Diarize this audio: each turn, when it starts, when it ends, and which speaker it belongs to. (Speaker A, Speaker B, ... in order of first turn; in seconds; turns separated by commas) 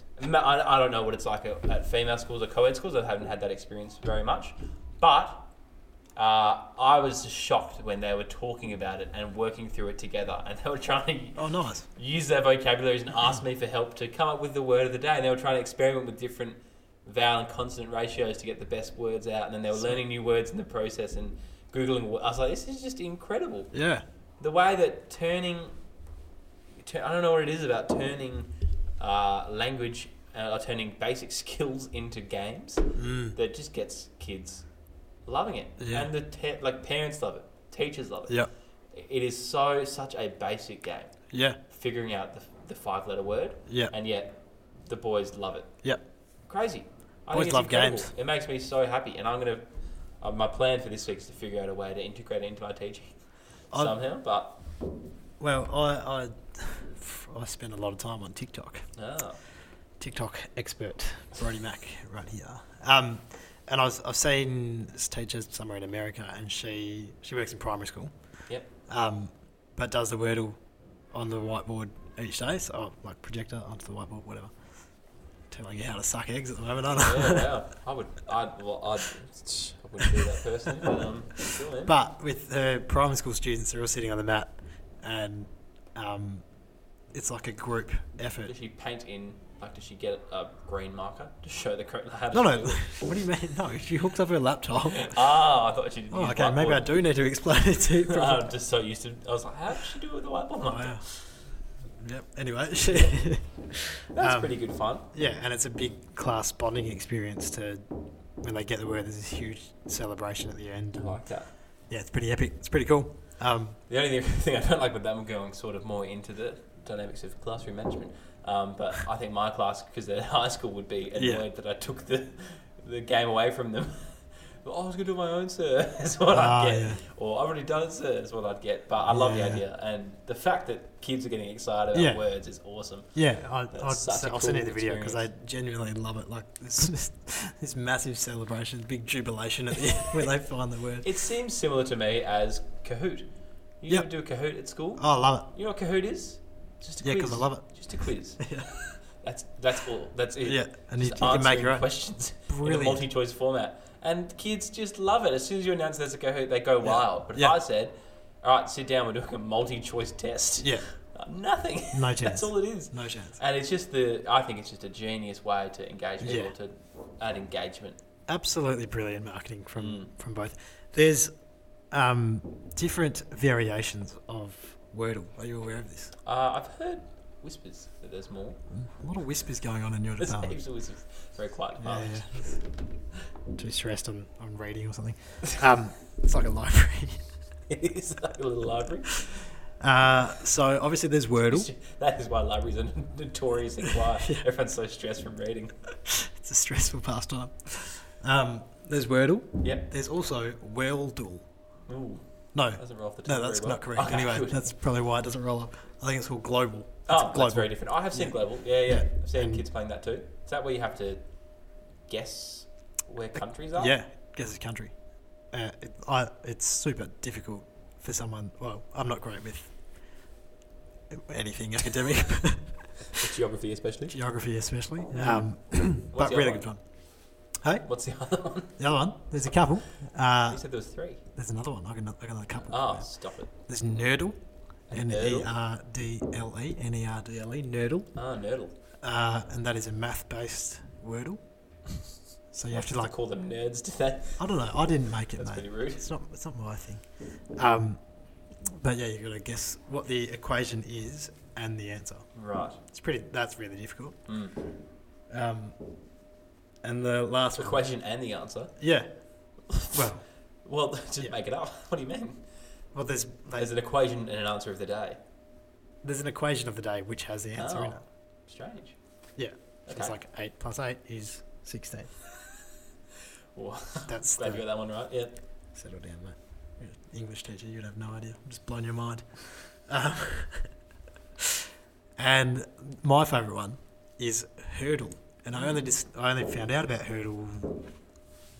Speaker A: 0.2-5.5, Speaker A: 6.2-23.7, Speaker B: 11.3-11.8, Speaker B: 23.7-24.0, Speaker A: 24.4-25.7, Speaker A: 26.8-34.6, Speaker B: 33.0-33.4, Speaker A: 35.2-38.4, Speaker B: 35.8-36.1, Speaker A: 38.9-41.1, Speaker B: 41.3-41.6, Speaker A: 41.7-44.4, Speaker B: 43.7-43.9, Speaker A: 44.9-45.7, Speaker A: 46.5-49.6, Speaker B: 47.3-48.1, Speaker A: 50.2-53.1, Speaker B: 53.7-54.0, Speaker A: 53.7-54.6, Speaker B: 55.4-58.9, Speaker A: 59.0-59.4, Speaker B: 60.0-68.1, Speaker B: 68.9-70.6, Speaker B: 71.1-74.5, Speaker B: 75.5-77.5, Speaker A: 77.0-81.9, Speaker B: 81.8-86.4, Speaker B: 87.1-88.5, Speaker A: 88.4-92.8, Speaker B: 92.3-95.4, Speaker A: 94.9-96.9, Speaker B: 96.1-98.5, Speaker A: 98.0-101.4, Speaker B: 100.7-101.0, Speaker B: 102.0-104.5, Speaker A: 104.1-105.0, Speaker B: 105.1-107.8, Speaker B: 108.4-111.2, Speaker A: 111.0-111.5, Speaker B: 111.9-113.8, Speaker A: 113.9-133.1, Speaker B: 121.1-121.4, Speaker B: 126.3-127.0, Speaker B: 129.1-129.6, Speaker B: 131.9-132.2, Speaker B: 133.1-141.1, Speaker A: 133.7-135.2, Speaker A: 141.0-143.3, Speaker A: 143.8-148.5, Speaker B: 145.0-145.5, Speaker B: 147.0-147.7, Speaker B: 148.4-148.7, Speaker A: 149.2-168.0, Speaker B: 150.4-151.9, Speaker B: 152.4-153.0, Speaker B: 156.8-157.6, Speaker B: 160.6-160.9, Speaker B: 161.9-163.4, Speaker B: 166.2-166.5, Speaker B: 168.3-171.3, Speaker A: 169.8-170.1, Speaker B: 171.9-176.1, Speaker A: 176.2-178.6, Speaker B: 178.7-180.6, Speaker A: 180.2-182.4, Speaker B: 181.8-182.6, Speaker B: 183.5-187.2, Speaker A: 187.7-189.4, Speaker B: 189.7-191.7, Speaker A: 191.4-195.7, Speaker B: 196.1-201.4, Speaker A: 201.9-204.7, Speaker B: 202.5-209.6, Speaker A: 207.1-211.2, Speaker A: 212.1-213.9, Speaker B: 213.7-214.9, Speaker B: 215.5-219.7, Speaker B: 221.1-223.2, Speaker A: 223.1-224.2, Speaker B: 224.1-226.8, Speaker A: 225.1-225.4, Speaker A: 226.1-226.7, Speaker B: 227.6-227.8, Speaker A: 227.8-228.8, Speaker B: 228.8-230.6, Speaker A: 230.5-231.2, Speaker B: 231.3-234.4, Speaker A: 232.7-233.5, Speaker B: 234.9-238.1, Speaker A: 234.9-235.5, Speaker A: 238.1-238.7, Speaker B: 239.0-241.4, Speaker B: 242.5-243.1, Speaker A: 242.7-244.4, Speaker B: 244.4-248.0, Speaker A: 245.4-246.1, Speaker B: 248.7-252.2, Speaker A: 252.3-252.8, Speaker B: 252.9-254.2, Speaker A: 254.3-254.6, Speaker B: 255.3-255.8, Speaker B: 256.8-257.9, Speaker A: 257.5-258.7, Speaker B: 258.8-259.1, Speaker A: 259.7-260.0, Speaker B: 259.9-260.2, Speaker A: 260.6-262.4, Speaker B: 262.9-263.7, Speaker A: 263.6-265.2, Speaker B: 266.0-268.0, Speaker A: 267.6-269.0, Speaker B: 269.4-272.1, Speaker A: 269.9-270.1, Speaker A: 273.5-275.3, Speaker B: 274.1-274.6, Speaker B: 275.7-280.7, Speaker B: 281.4-281.6, Speaker B: 282.2-287.9